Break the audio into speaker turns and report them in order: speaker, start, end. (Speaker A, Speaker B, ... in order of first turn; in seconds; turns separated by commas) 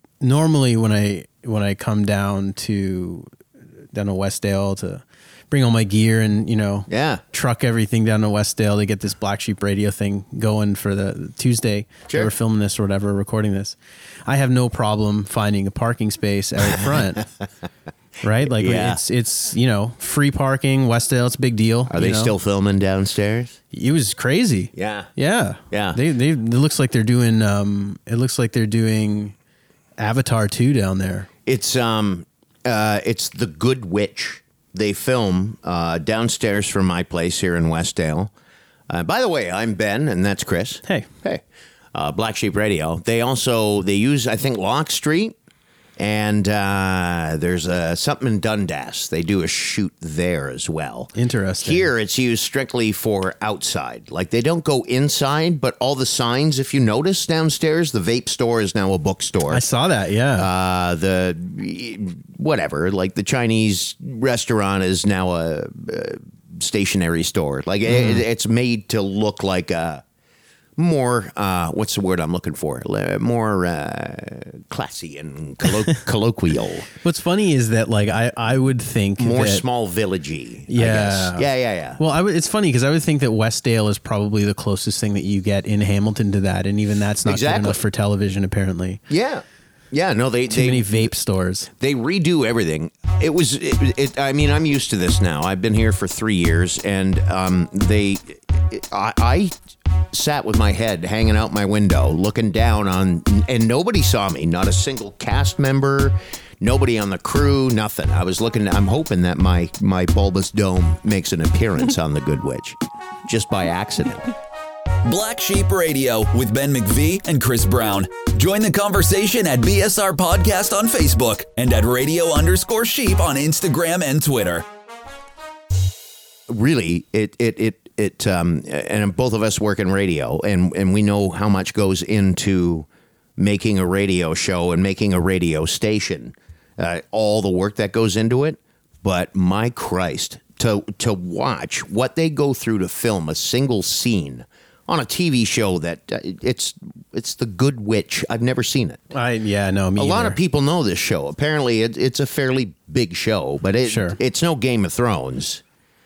Speaker A: 0.2-3.3, Speaker A: 3.9-17.3, Speaker B: 6.9-7.2, Speaker B: 16.7-17.0, Speaker A: 18.2-22.3, Speaker B: 18.4-19.0, Speaker B: 21.9-23.6, Speaker A: 23.7-29.4, Speaker B: 24.7-25.1, Speaker B: 25.7-26.0, Speaker A: 30.0-31.3, Speaker B: 31.5-38.3, Speaker B: 38.9-41.4, Speaker B: 41.9-45.4, Speaker B: 46.0-59.6, Speaker A: 51.1-51.9, Speaker A: 59.5-60.5, Speaker B: 60.4-70.0, Speaker A: 67.9-68.2, Speaker B: 70.8-76.9, Speaker A: 77.0-79.6, Speaker B: 79.2-82.0, Speaker A: 80.7-81.5, Speaker A: 82.0-89.0, Speaker B: 87.2-87.8, Speaker B: 89.1-91.1, Speaker A: 90.5-91.7, Speaker B: 91.7-99.5, Speaker B: 100.1-114.3, Speaker C: 115.0-124.7, Speaker B: 126.5-149.0, Speaker A: 149.1-150.4, Speaker B: 150.0-155.6, Speaker A: 153.8-154.2